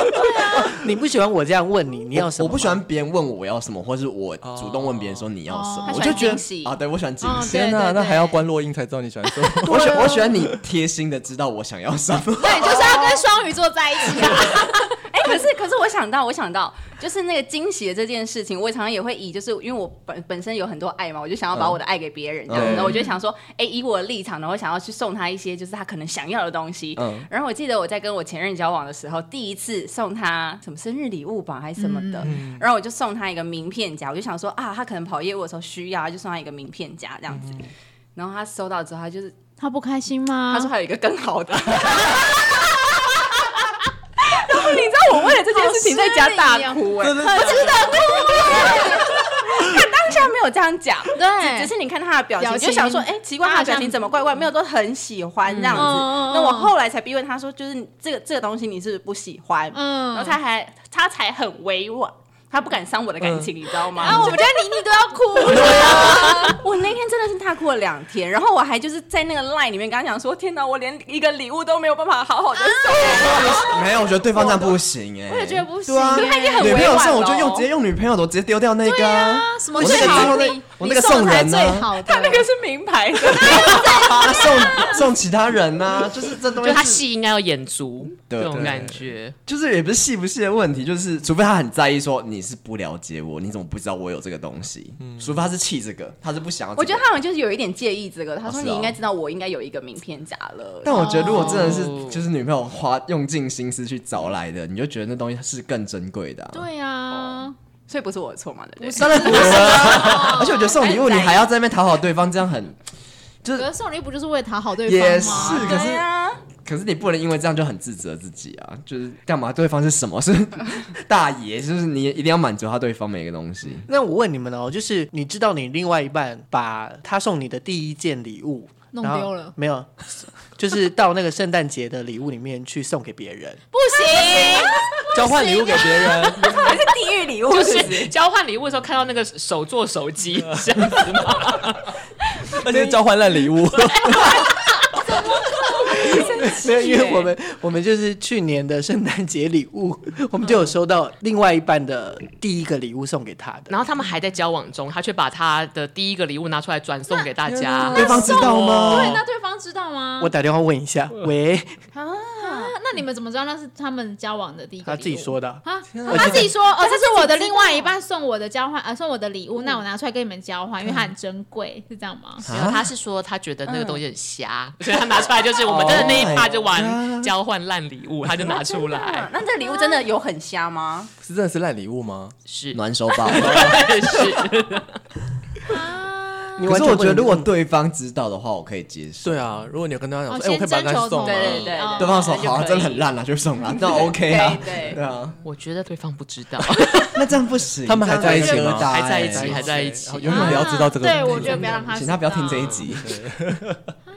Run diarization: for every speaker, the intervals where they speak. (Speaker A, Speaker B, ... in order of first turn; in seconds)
Speaker A: 0.3-0.7, 5.5-6.4, 7.2-8.4, 12.4-15.4, 22.9-23.1, 31.8-32.3, 39.6-40.7, 45.4-47.0, 47.9-48.9, 51.1-51.7, 52.4-54.0, 55.7-56.7, 59.7-60.4, 64.0-66.6, 72.5-73.8, 74.3-74.7, 75.3-77.1, 78.8-82.5, 83.7-85.0, 100.9-101.9, 106.5-107.5, 108.8-110.8, 113.5-116.0, 128.9-129.5, 133.7-136.8, 145.0-146.7, 157.9-160.3, 162.4-172.4, 179.8-180.0, 185.6-186.7, 190.3-192.6, 193.6-194.1, 200.3-202.9
Speaker B: 0.7-2.8, 123.9-133.6, 146.0-153.7, 160.2-161.8, 164.8-166.4, 186.6-187.5
Speaker C: 2.1-7.7, 9.6-13.2, 21.5-21.8, 22.5-22.9, 26.9-27.3, 65.5-66.2, 73.2-82.0, 83.3-87.0, 88.3-88.9, 89.4-97.1, 98.4-99.0, 100.8-106.7, 109.0-112.8, 113.4-113.7, 114.8-116.0, 116.6-123.9, 157.9-159.2, 172.4-172.9, 175.6-177.3, 182.7-184.2, 186.6-189.4, 191.9-195.4, 197.1-199.7, 200.3-203.1
Speaker D: 4.4-5.3, 7.2-10.6, 22.6-22.9, 32.2-32.6, 47.0-47.8, 63.2-63.5, 88.6-89.0, 95.0-95.3, 135.1-136.6, 142.5-144.5, 157.4-158.3, 165.9-166.4, 181.2-182.3, 189.2-191.8, 197.8-201.9, 202.7-203.9
Speaker E: 5.8-6.8, 12.6-13.2, 15.1-39.3, 40.5-43.5, 44.2-73.8, 74.4-74.7, 76.1-77.7, 79.8-80.4, 82.0-85.0, 96.8-101.9, 107.1-111.5, 115.2-116.4, 133.9-134.8, 136.3-138.1, 145.9-147.3, 161.9-162.8, 166.3-167.9, 169.6-169.8, 173.7-174.0, 175.7-176.5, 178.2-181.1, 191.2-193.1, 193.6-195.0
Speaker F: 55.5-55.8, 86.6-89.3, 101.3-102.2, 137.5-141.9, 153.7-159.2, 172.4-179.3, 182.5-184.9, 195.4-197.2, 198.1-200.8